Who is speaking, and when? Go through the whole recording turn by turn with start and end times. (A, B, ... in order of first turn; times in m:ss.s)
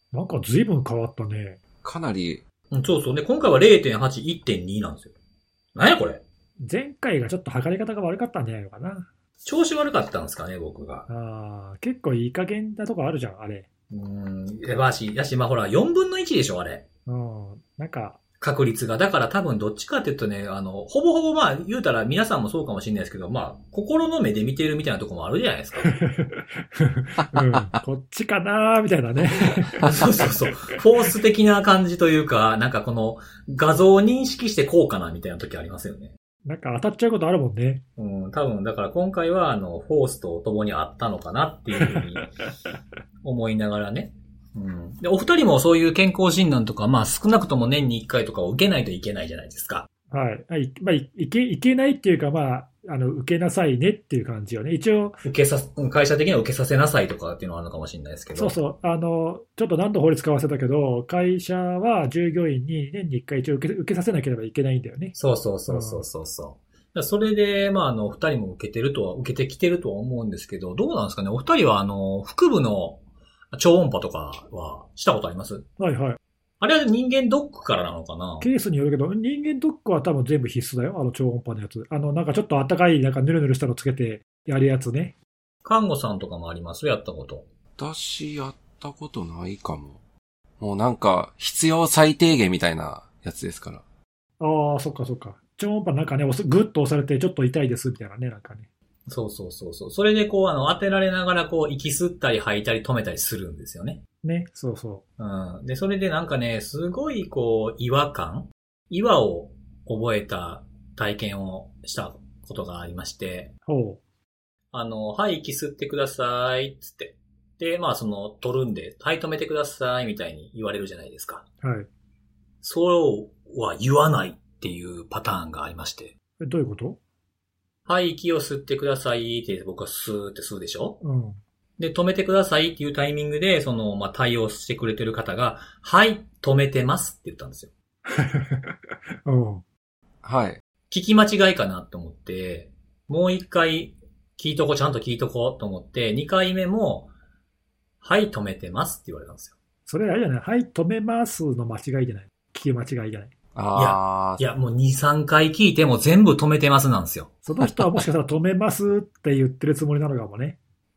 0:00.1-0:01.6 A
0:01.8-0:02.4 B
0:02.7-0:05.1 C
0:05.8-0:06.2 C
0:06.6-0:09.1 A
0:09.4-0:11.1 C
0:11.1-0:13.7 A
0:13.9-0:16.8 C
0:17.1-0:18.2 A
0:18.4-0:25.9 C
0:25.8-0:30.8 A
0:29.8-0:36.2 C
0:36.5-0:37.8 A
0:38.0-0:42.3 C
0:41.8-0:42.2 A
0:43.2-0:49.9 C
0:50.1-0:55.2 A
0:55.2-0:58.6 C
0:58.4-1:05.2 A
1:05.2-1:13.0 C
1:05.7-1:06.0 A
1:13.5-1:15.6 C
1:15.8-1:16.2 A
1:16.6-1:18.5 C
1:18.4-1:25.2 A
1:25.6-1:27.5 C
1:27.8-1:30.0 B
1:30.6-1:33.8 B
1:34.4-1:38.7 A
1:39.1-1:44.0 C
1:44.2-1:45.0 A
1:45.2-1:53.5 C
1:53.7-1:54.0 A
1:54.7-2:01.4 C
2:01.6-2:01.9 A
2:02.6-2:06.2 C
2:06.4-2:07.0 A
2:07.9-2:11.0 C
2:11.0-2:11.4 A
2:11.8-2:17.7 C
2:18.1-2:19.6 A
2:20.2-2:20.6 B
2:20.9-2:27.1 C
2:28.0-2:29.6 C
2:29.9-2:33.3 A
2:33.6-2:34.4 B
2:33.7-2:37.3 C
2:37.4-2:40.6 A